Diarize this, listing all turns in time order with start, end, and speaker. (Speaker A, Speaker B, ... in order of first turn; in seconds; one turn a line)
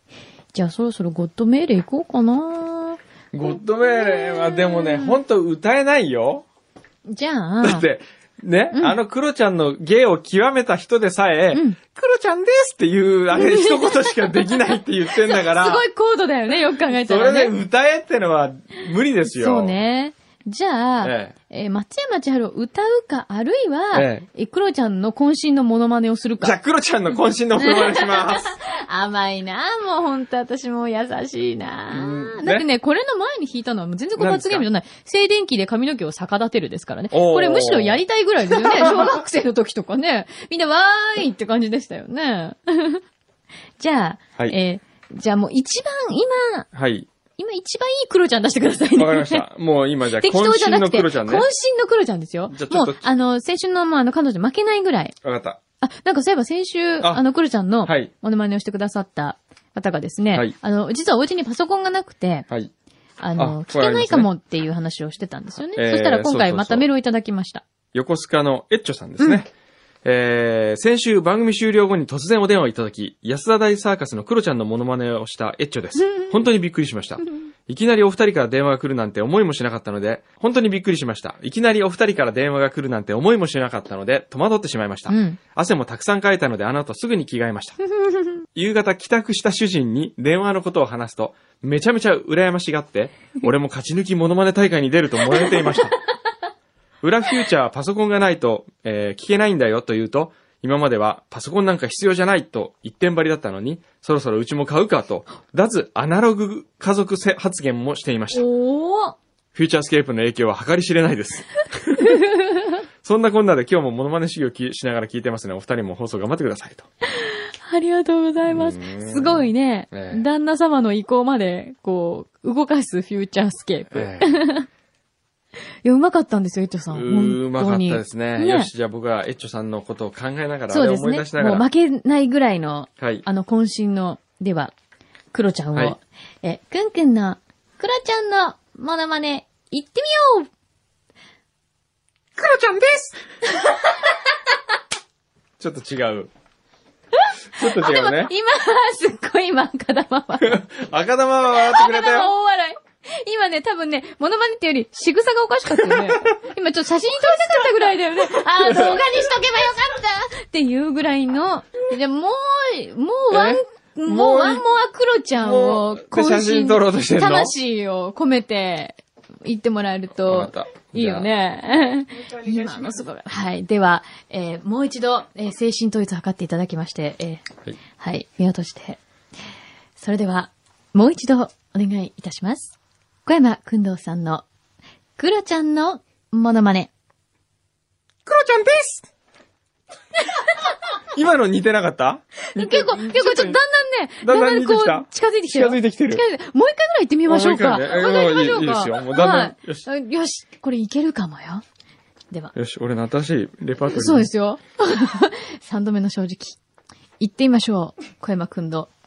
Speaker A: 0.5-3.0
Speaker B: 3.3-6.4
Speaker A: 3.8-5.2
Speaker A: 7.0-7.8
Speaker B: 7.6-15.8
Speaker A: 8.7-9.0
Speaker A: 11.5-11.8
Speaker A: 13.3-17.5
Speaker B: 16.9-19.8
Speaker A: 19.2-26.6
Speaker B: 21.0-21.3
Speaker B: 23.9-24.2
Speaker B: 26.4-28.6
Speaker A: 27.6-43.0
Speaker B: 31.9-32.6
Speaker B: 34.2-34.6
Speaker B: 37.1-38.0
Speaker B: 38.5-39.1
Speaker A: 43.8-46.7
Speaker B: 46.7-47.1
Speaker A: 47.4-49.5
Speaker B: 48.9-51.5
Speaker A: 50.1-55.1
Speaker B: 52.5-53.0
Speaker B: 55.2-55.6
Speaker A: 55.8-62.5
Speaker B: 57.8-58.1
Speaker A: 63.2-67.6
Speaker B: 63.4-64.3
Speaker B: 65.7-66.8
Speaker B: 67.9-69.5
Speaker B: 70.0-87.8
Speaker A: 76.0-76.3
Speaker A: 85.1-85.4
Speaker A: 87.9-88.4
Speaker B: 88.5-95.9
Speaker A: 95.3-95.9
Speaker B: 97.0-108.4
Speaker A: 108.3-109.2
Speaker B: 109.5-112.2
Speaker A: 112.0-112.8
Speaker B: 113.0-116.8
Speaker A: 117.1-124.7
Speaker B: 118.5-120.2
Speaker B: 123.9-124.3
Speaker A: 125.8-128.7
Speaker B: 126.9-131.7
Speaker A: 130.7-134.7
Speaker B: 133.0-133.2
Speaker A: 135.3-140.5
Speaker B: 142.4-143.2
Speaker B: 145.6-146.3
Speaker B: 147.6-148.3
Speaker A: 147.6-150.6
Speaker B: 150.4-152.3
Speaker A: 151.5-179.0
Speaker B: 155.7-156.3
Speaker B: 157.3-157.6
Speaker B: 158.4-159.3
Speaker B: 163.3-164.6
Speaker B: 165.4-167.5
Speaker B: 170.2-171.3
Speaker A: 180.0-184.4
Speaker A: 185.2-186.9
Speaker B: 188.2-189.1
Speaker B: 191.1-193.6
Speaker A: 192.5-201.6
Speaker B: 194.2-196.2
Speaker B: 197.3-199.8
Speaker B: 202.5-204.3
Speaker A: 203.9-206.6
Speaker A: 207.2-208.9